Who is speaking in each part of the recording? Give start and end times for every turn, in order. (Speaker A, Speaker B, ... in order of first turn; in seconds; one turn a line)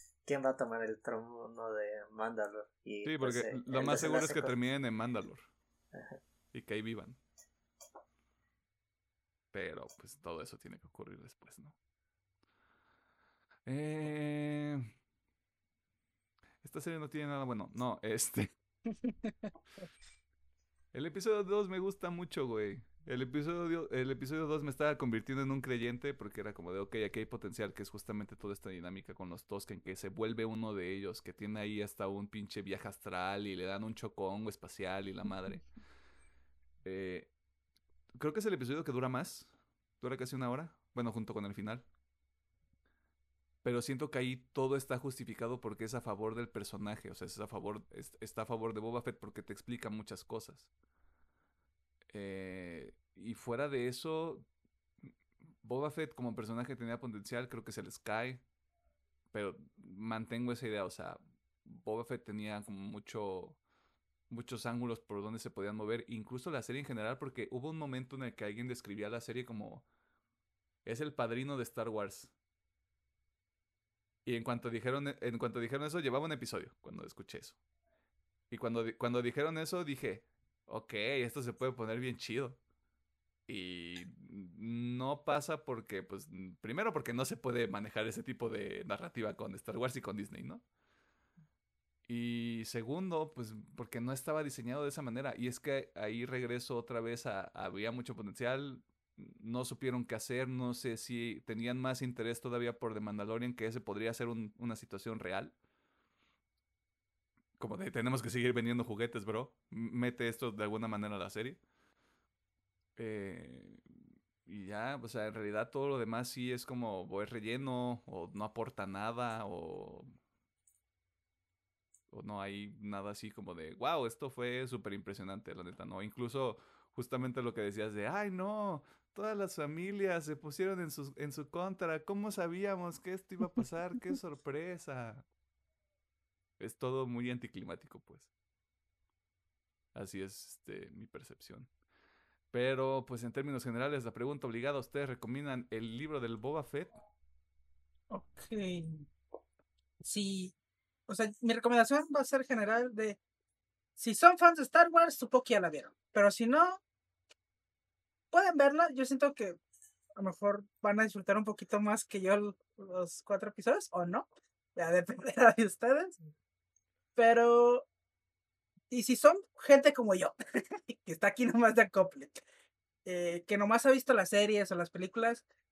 Speaker A: 0.3-4.5
Speaker B: 3.0-5.5
Speaker A: 5.9-6.2
Speaker B: 6.5-7.2
Speaker B: 9.5-11.8
Speaker B: 13.7-14.9
Speaker B: 16.6-18.5
Speaker C: 18.9-19.9
Speaker B: 20.9-35.6
Speaker B: 36.8-37.3
Speaker B: 38.2-41.9
Speaker B: 43.6-50.7
Speaker B: 52.1-54.5
Speaker B: 55.6-58.4
Speaker B: 59.3-63.6
Speaker B: 64.3-69.8
Speaker B: 70.8-72.3
Speaker B: 74.2-77.6
Speaker B: 78.5-82.6
Speaker B: 83.5-90.6
Speaker B: 92.1-105.5
Speaker B: 107.6-111.6
Speaker B: 113.0-113.8
Speaker B: 114.5-120.1
Speaker B: 122.1-135.3
Speaker B: 136.6-138.3
Speaker B: 139.9-141.7
Speaker B: 142.5-146.9
Speaker C: 148.1-149.1
Speaker C: 150.0-150.6
Speaker C: 151.1-153.2
Speaker C: 154.0-156.8
Speaker C: 158.3-159.6
Speaker C: 160.2-166.2
Speaker C: 167.2-167.9
Speaker C: 168.9-172.4
Speaker C: 173.1-175.4